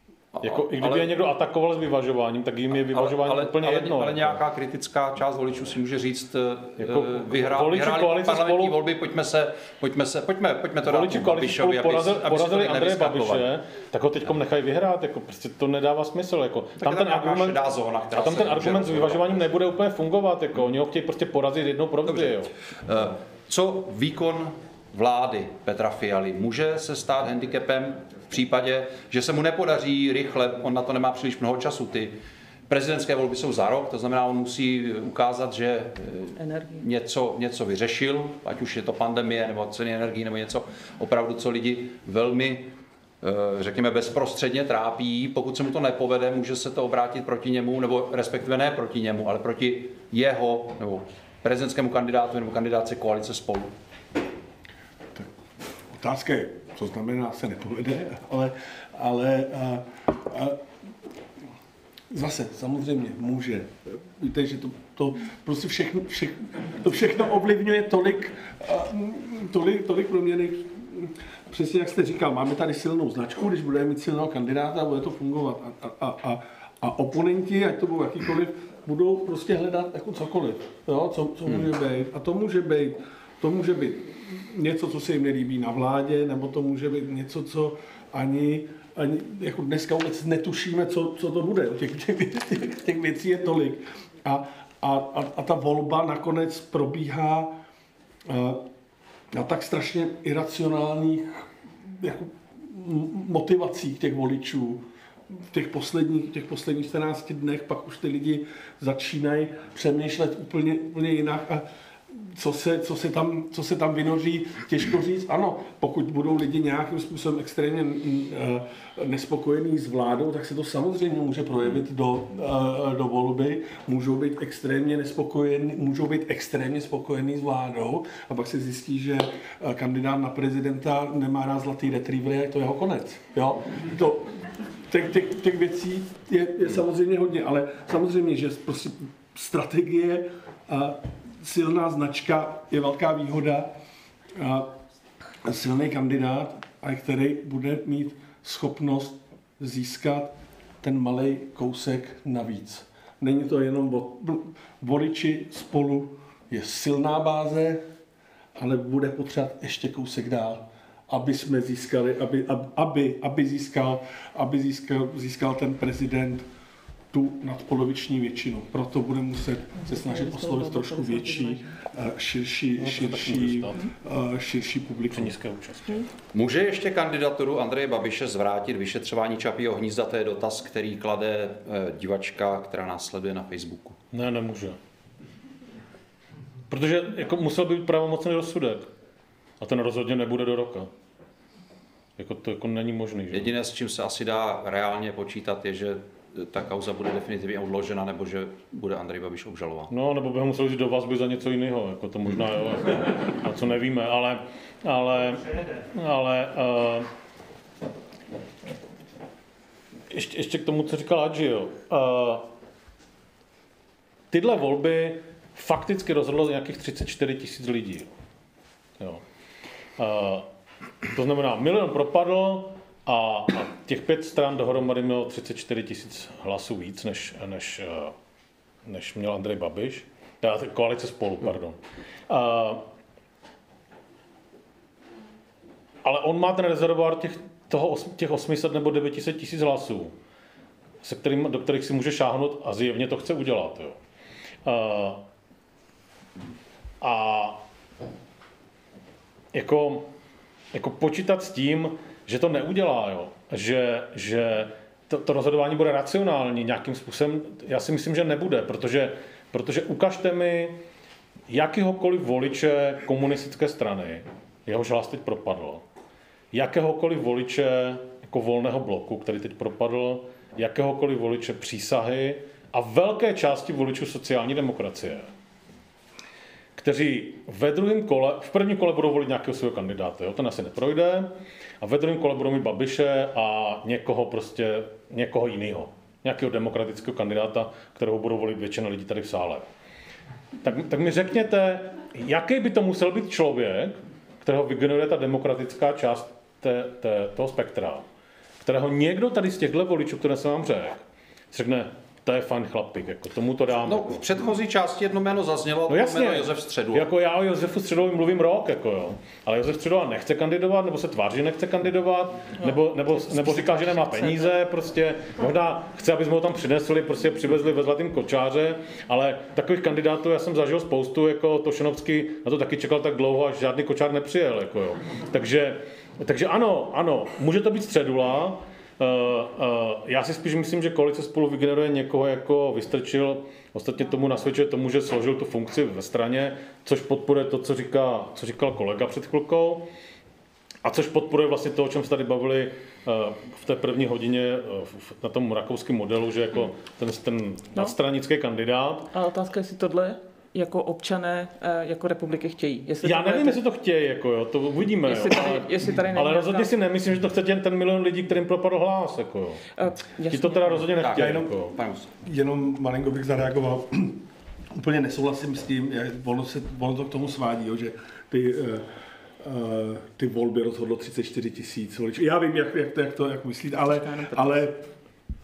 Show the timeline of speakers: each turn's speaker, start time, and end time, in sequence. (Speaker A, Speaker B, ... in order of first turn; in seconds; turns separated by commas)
Speaker A: 0.3-1.1, Speaker B: 0.4-4.4, Speaker A: 2.7-13.5, Speaker B: 6.8-8.8, Speaker B: 10.8-17.6, Speaker A: 16.8-19.4, Speaker B: 18.1-22.5, Speaker A: 22.1-32.2, Speaker A: 32.7-53.7, Speaker C: 36.4-36.9, Speaker D: 55.9-60.6, Speaker D: 62.1-97.5, Speaker D: 98.3-98.7, Speaker D: 99.3-143.7, Speaker D: 144.4-144.7, Speaker D: 145.4-157.8, Speaker D: 158.6-166.5, Speaker D: 167.1-175.4, Speaker C: 169.8-171.8, Speaker B: 172.8-173.8, Speaker B: 175.1-176.1, Speaker A: 176.3-184.0, Speaker B: 184.1-184.8, Speaker B: 186.7-188.9, Speaker B: 189.6-190.9, Speaker B: 192.2-193.5, Speaker A: 193.3-199.9, Speaker B: 199.9-207.1, Speaker B: 210.1-212.5, Speaker B: 214.3-218.1, Speaker B: 220.0-220.5, Speaker B: 221.1-228.1, Speaker B: 228.9-231.8, Speaker B: 232.3-232.8, Speaker B: 236.0-240.1, Speaker B: 241.0-244.0, Speaker B: 244.7-245.2, Speaker B: 247.0-247.6, Speaker B: 249.5-250.1, Speaker B: 250.7-260.8, Speaker B: 261.5-265.8, Speaker B: 266.5-275.3, Speaker B: 276.8-289.7, Speaker B: 290.6-298.1, Speaker B: 298.6-304.2, Speaker A: 303.8-307.1, Speaker B: 305.9-339.9, Speaker C: 312.6-314.5, Speaker B: 340.8-349.1, Speaker C: 349.1-353.6, Speaker B: 353.0-359.6, Speaker C: 355.0-356.8, Speaker C: 359.8-360.9, Speaker B: 360.3-361.8, Speaker A: 361.0-362.1, Speaker D: 361.1-361.5, Speaker D: 362.2-364.2, Speaker D: 364.7-368.9, Speaker D: 369.4-374.8, Speaker C: 373.7-374.7